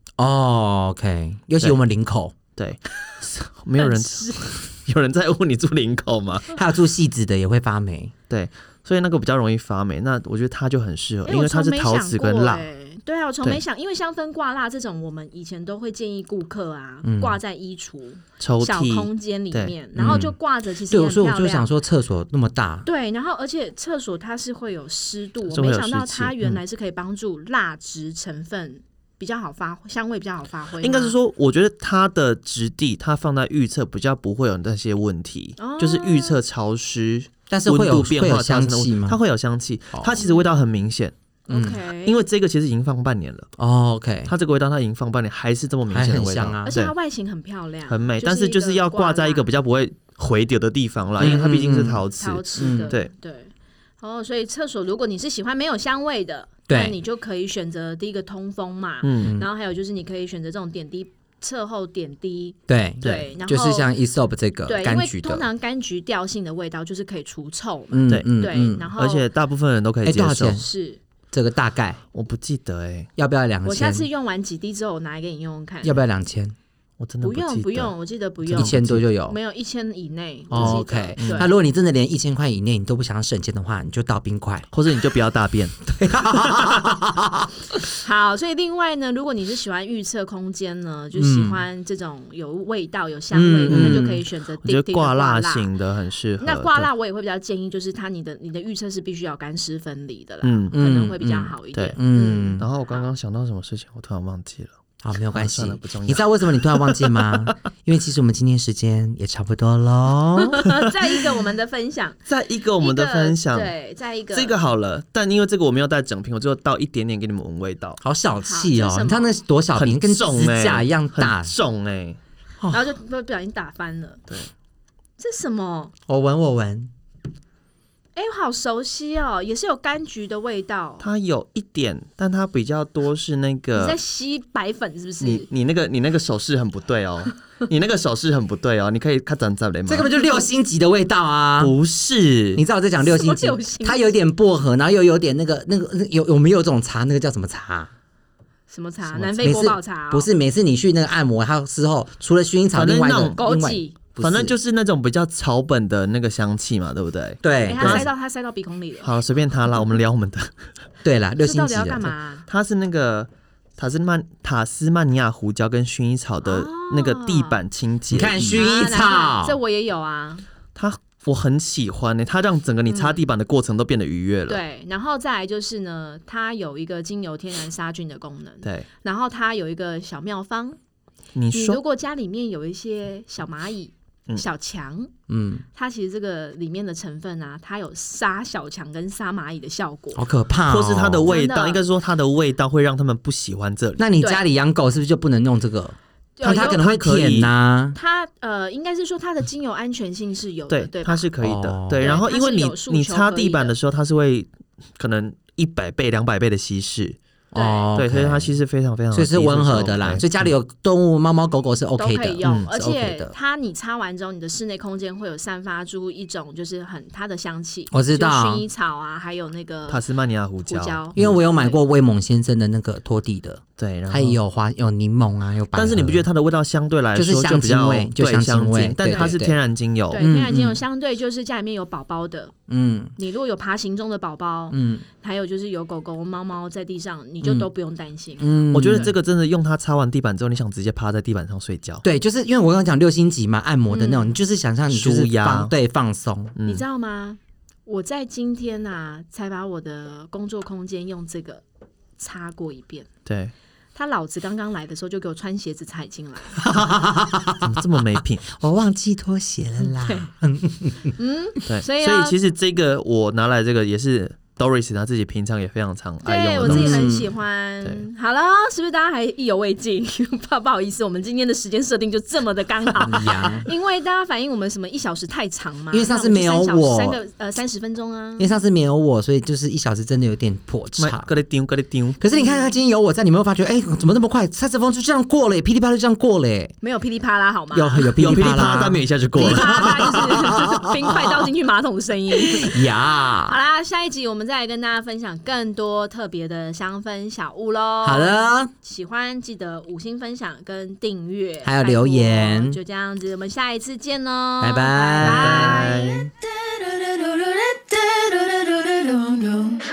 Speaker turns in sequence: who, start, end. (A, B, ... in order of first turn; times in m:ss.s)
0:00.2-0:02.4 A
0:02.6-0:06.6 B
0:03.8-0:04.6 C
0:06.5-0:08.1 A
0:08.3-0:12.7 B
0:11.3-0:21.7 C
0:17.0-0:17.4 A
0:18.4-0:20.3 B
0:20.0-0:20.4 A
0:20.9-0:22.9 A
0:22.8-0:31.2 C
0:25.5-0:26.6 B
0:30.8-0:41.1 B
0:35.6-0:36.4 C
0:37.5-0:39.2 A
0:40.0-0:40.2 A
0:40.2-0:40.4 C
0:41.5-0:42.2 C
0:41.5-0:41.8 A
0:42.0-0:43.5 B
0:43.6-0:44.3 A
0:44.3-0:46.9 B
0:45.9-0:46.7 A
0:46.6-0:49.5 C
0:47.9-0:53.1 B
0:51.2-0:53.0 A
0:52.2-1:03.9 C
0:56.7-0:57.0 A
0:59.0-0:59.4 B
0:59.2-0:59.5 A
1:02.7-1:05.4 A
1:03.0-1:03.3 B
1:04.7-1:09.3 C
1:07.9-1:08.9 A
1:09.0-1:10.6 B
1:10.0-1:10.6 A
1:10.5-1:11.0 C
1:11.3-1:12.0 A
1:12.1-1:13.1 B
1:13.2-1:14.1 A
1:13.6-1:16.0 C
1:15.8-1:16.6 A
1:17.0-1:18.0 B
1:17.2-1:21.5 C
1:18.5-1:19.0 B
1:18.5-1:19.4 A
1:20.5-1:24.7 A
1:20.5-1:21.5 B
1:24.7-1:25.8 B
1:25.8-1:27.8 A
1:26.4-1:26.8 B
1:28.0-1:35.7 C
1:31.1-1:31.6 A
1:33.3-1:34.2 A
1:33.7-1:34.1 B
1:34.6-1:36.9 B
1:36.4-1:43.0 C
1:40.4-1:40.8 B
1:40.7-1:42.7 A
1:41.7-1:42.0 B
1:42.6-1:44.8 B
1:45.0-1:50.8 A
1:45.3-1:47.5 B
1:50.4-1:52.2 C
1:52.3-1:53.7 B
1:52.8-1:54.6 C
1:54.3-1:58.0 B
1:58.0-2:01.5 A
1:58.4-1:59.4 C
1:59.8-2:02.2 B
2:02.7-2:04.2 C
2:05.2-2:05.9 C
2:06.1-2:06.9 A
2:08.2-2:11.0 C
2:11.0-2:14.0 B
2:13.8-2:15.5 C
2:15.2-2:20.1 B
2:19.9-2:21.8 A
2:21.6-2:22.6 B
2:22.6-2:27.9 A
2:23.0-2:24.1 C
2:28.7-2:30.3 C
2:29.2-2:34.5 A
2:32.7-2:33.4 B
2:33.4-2:34.0 C
2:34.2-2:38.1 B
2:37.4-2:38.1 A
2:37.7-2:39.2 C
2:39.0-2:40.5 B
2:41.0-2:42.1 A
2:41.4-2:42.4 C
2:42.5-2:48.7 B
2:46.4-2:47.6 C
2:48.1-2:49.6 A
2:48.4-2:50.4 C
2:50.8-2:54.6 B
2:52.9-2:53.2 C
2:54.5-3:00.8 C
3:01.4-3:01.8 B
3:01.5-3:05.1 C
3:05.3-3:05.6 A
3:05.8-3:10.2 C
3:10.2-3:11.3 A
3:10.7-3:14.0 B
3:11.3-3:11.8 C
3:14.0-3:18.0 A
3:16.4-3:16.9 C
3:16.4-3:17.5 B
3:18.0-3:21.2 C
3:20.7-3:27.2 B
3:21.4-3:22.2 A
3:22.0-3:23.8 C
3:27.5-3:27.9 C
3:27.5-3:28.5 A
3:27.9-3:30.3 B
3:29.1-3:33.3 A
3:32.0-3:40.0 C
3:37.9-3:38.7 A
3:39.9-3:41.2 B
3:40.7-3:41.8 C
3:41.2-3:46.3 A
3:43.8-3:44.4 B
3:45.8-3:50.2 B
3:47.2-3:49.6 A
3:49.1-3:49.4 C
3:50.1-3:52.5 C
3:50.2-3:50.8 A
3:52.7-3:53.1 A
3:53.2-3:59.1 C
3:54.7-3:55.0 A
3:57.4-3:57.7 A
3:58.4-3:59.1 A
3:58.7-4:02.0 B
4:02.0-4:06.6 A
4:03.9-4:04.4 C
4:04.9-4:05.7 B
4:06.6-4:06.8 B
4:06.6-4:11.6 C
4:12.2-4:13.1 C
4:13.3-4:13.5 B
4:14.0-4:16.6 C
4:16.6-4:17.8 A
4:17.6-4:18.5 B
4:18.5-4:21.2 A
4:19.8-4:20.3 C
4:21.2-4:22.4 C
4:21.7-4:27.1 B
4:26.2-4:38.6 C
4:26.6-4:27.3 A
4:33.0-4:33.7 A
4:35.9-4:37.2 A
4:38.4-4:41.3 A
4:41.0-4:42.2 B
4:42.2-4:46.8 A
4:42.3-4:42.7 C
4:46.8-4:48.6 C
4:47.7-4:51.5 A
4:48.2-4:50.4 B
4:49.4-5:06.2 C
4:52.3-4:53.6 A
4:58.0-4:58.7 A
5:01.6-5:02.8 A
5:04.6-5:05.9 A
5:05.2-5:06.3 B
5:07.2-5:07.5 A
5:08.1-5:09.7 A